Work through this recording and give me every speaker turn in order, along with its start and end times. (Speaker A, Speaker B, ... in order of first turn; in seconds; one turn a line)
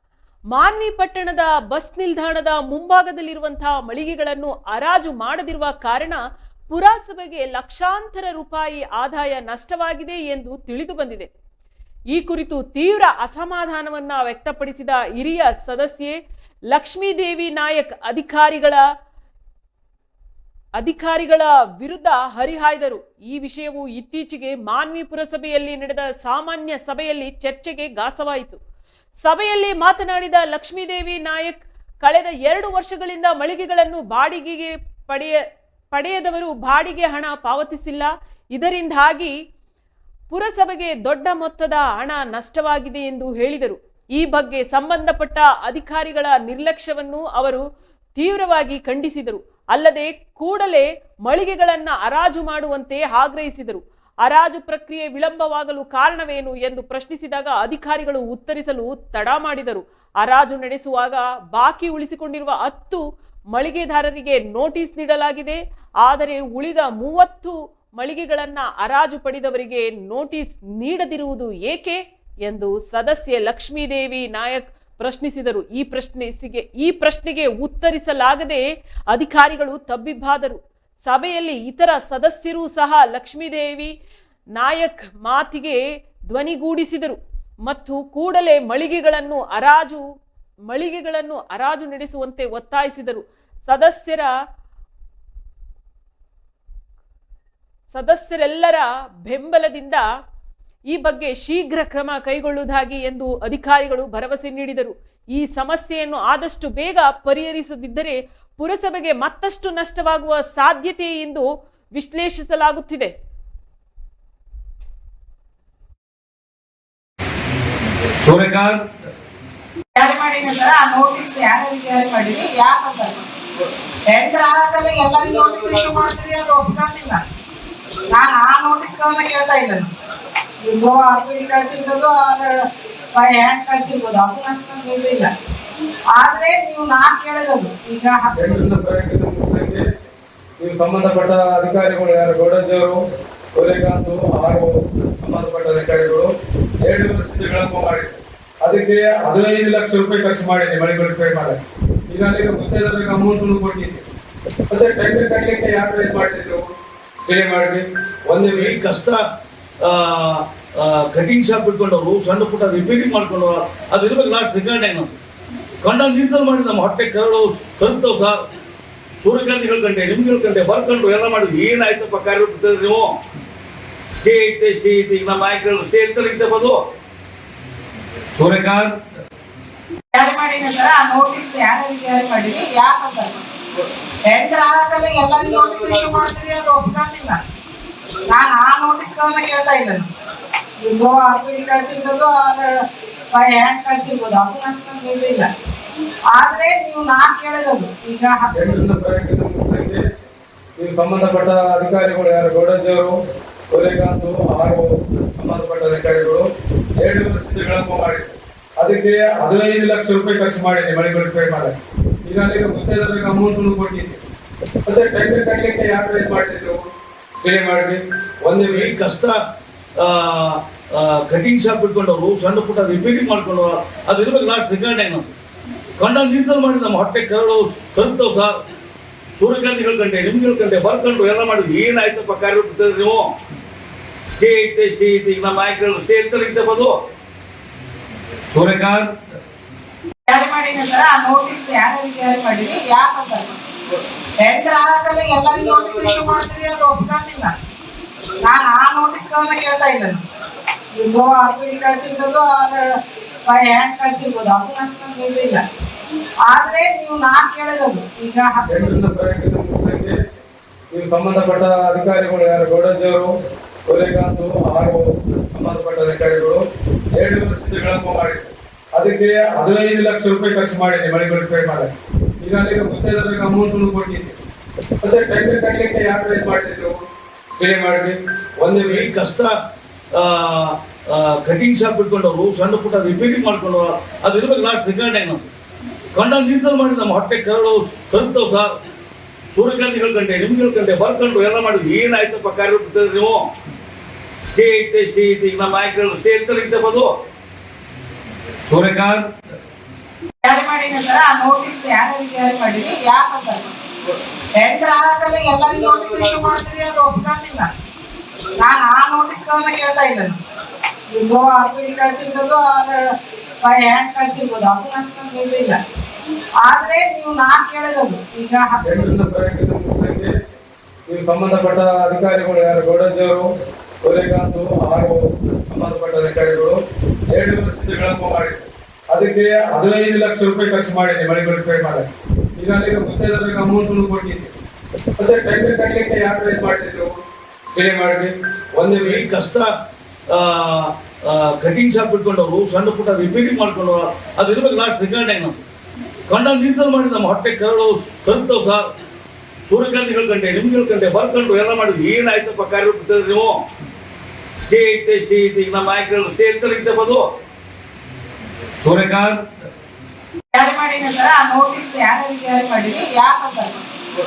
Speaker A: 0.5-11.3
Speaker A: 12.1-16.2
Speaker A: 16.7-18.8
Speaker A: 20.8-28.6
Speaker A: 29.2-35.4
Speaker A: 35.9-39.3
Speaker A: 40.3-47.6
Speaker A: 48.2-83.9
Speaker A: 84.6-90.0
Speaker A: 90.7-94.3
Speaker A: 97.9-100.0
Speaker A: 100.9-113.1
Speaker B: 118.2-118.8
Speaker C: 120.0-123.3
Speaker C: 124.1-127.2
Speaker C: 128.1-129.9
Speaker C: 130.6-135.3
Speaker C: 136.2-138.6
Speaker D: 138.3-139.8
Speaker D: 140.6-143.0
Speaker D: 143.6-146.3
Speaker D: 146.8-154.1
Speaker D: 154.7-156.7
Speaker D: 157.3-158.7
Speaker B: 158.5-159.2
Speaker B: 159.8-165.1
Speaker B: 165.8-168.4
Speaker B: 169.2-173.2
Speaker B: 174.1-176.8
Speaker B: 178.3-179.0
Speaker C: 180.1-183.4
Speaker C: 184.3-187.4
Speaker C: 188.3-190.1
Speaker C: 190.8-195.5
Speaker C: 196.3-198.8
Speaker D: 198.5-200.0
Speaker D: 200.8-203.2
Speaker D: 203.7-206.4
Speaker D: 207.0-211.7
Speaker D: 212.3-214.2
Speaker D: 214.9-216.8
Speaker D: 217.4-218.9
Speaker B: 218.7-219.4
Speaker B: 220.0-225.3
Speaker B: 226.0-228.6
Speaker B: 229.3-233.3
Speaker B: 234.3-236.9
Speaker B: 238.5-239.2
Speaker C: 240.3-243.6
Speaker C: 244.4-247.6
Speaker C: 248.4-250.2
Speaker C: 250.9-255.6
Speaker C: 256.5-258.9
Speaker D: 258.7-260.2
Speaker D: 260.9-263.3
Speaker D: 263.9-266.6
Speaker D: 267.2-271.9
Speaker D: 272.4-274.4
Speaker D: 275.0-277.0
Speaker D: 277.6-279.1
Speaker B: 278.8-279.6
Speaker B: 280.1-285.4
Speaker B: 286.1-288.8
Speaker B: 289.5-293.4
Speaker B: 294.4-297.1
Speaker B: 298.6-299.3
Speaker C: 300.4-303.7
Speaker C: 304.6-307.7
Speaker C: 308.6-310.4
Speaker C: 311.1-315.8
Speaker C: 316.6-319.0
Speaker D: 318.8-320.3
Speaker D: 321.1-323.5
Speaker D: 324.0-334.5
Speaker D: 335.2-337.1
Speaker D: 337.8-339.2
Speaker B: 338.9-339.7
Speaker B: 340.3-345.6
Speaker B: 346.3-348.9
Speaker B: 349.7-353.6
Speaker B: 354.6-357.2
Speaker B: 358.8-359.5
Speaker C: 360.5-363.9